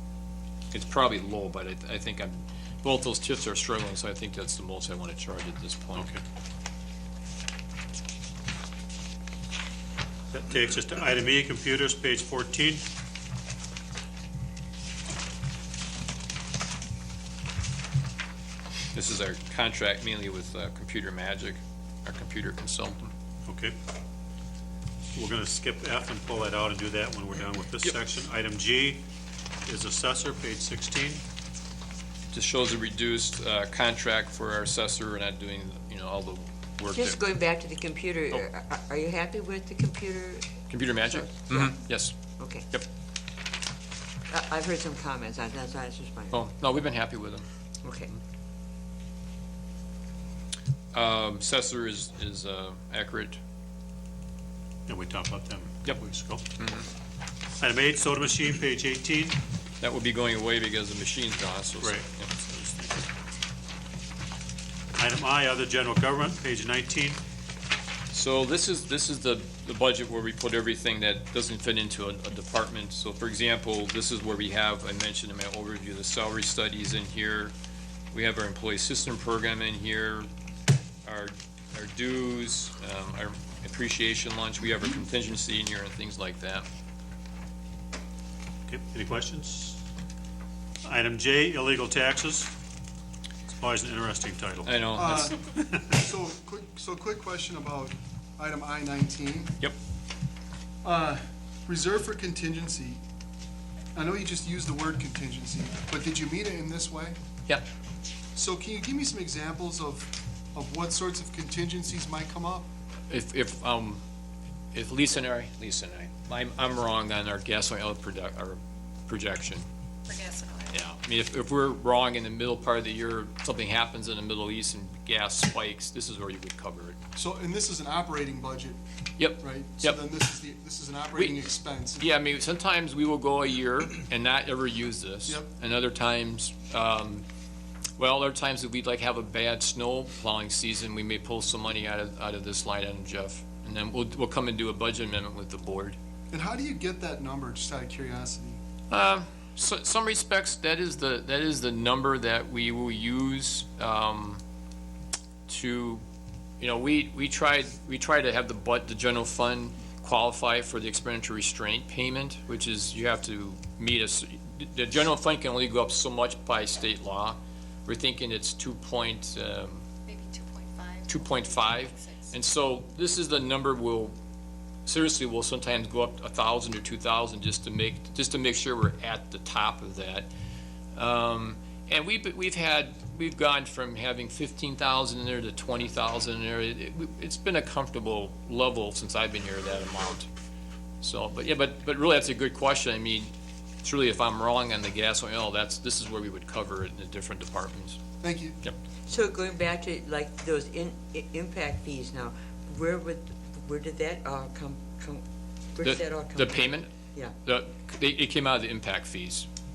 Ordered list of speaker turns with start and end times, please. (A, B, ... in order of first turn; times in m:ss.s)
0:00.7-0:06.1 A
0:06.0-0:06.2 B
0:10.3-0:12.8 B
0:18.9-0:23.1 A
0:23.5-0:23.8 B
0:25.2-0:29.0 B
0:29.7-0:31.2 B
0:32.3-0:37.2 A
0:36.9-0:40.6 C
0:40.7-0:42.2 A
0:42.4-0:42.7 C
0:44.3-0:46.4 C
0:46.3-0:47.5 A
0:47.8-0:48.1 C
0:50.9-0:53.4 A
0:54.9-0:56.4 B
0:56.6-0:56.9 A
0:57.6-0:59.4 B
0:59.8-1:02.3 A
1:01.8-1:03.0 B
1:05.0-1:07.2 B
1:08.1-1:17.5 A
1:18.1-1:20.3 A
1:21.0-1:26.7 A
1:28.7-1:29.8 B
1:30.8-1:32.5 B
1:33.5-1:35.2 B
1:34.6-1:35.6 A
1:35.0-1:35.4 D
1:35.9-1:39.6 D
1:40.8-1:43.0 D
1:43.9-1:47.2 D
1:48.3-1:52.7 D
1:53.1-1:54.0 A
1:54.7-1:59.7 A
2:00.1-2:00.8 E
2:00.7-2:07.0 A
2:07.2-2:08.8 D
2:09.2-2:10.0 A
2:09.4-2:12.0 D
2:11.2-2:17.2 A
2:18.0-2:26.0 A
2:26.3-2:28.6 D
2:28.9-2:34.4 A
2:35.5-2:36.0 A
2:36.6-2:49.8 A
2:50.1-2:52.4 E
2:51.1-2:54.2 A
2:54.9-3:00.3 A
3:01.0-3:10.3 A
3:11.0-3:13.3 A
3:13.8-3:18.0 A
3:18.2-3:18.6 D
3:19.1-3:25.2 C
3:25.7-3:27.3 C
3:25.8-3:26.9 A
3:27.4-3:29.5 A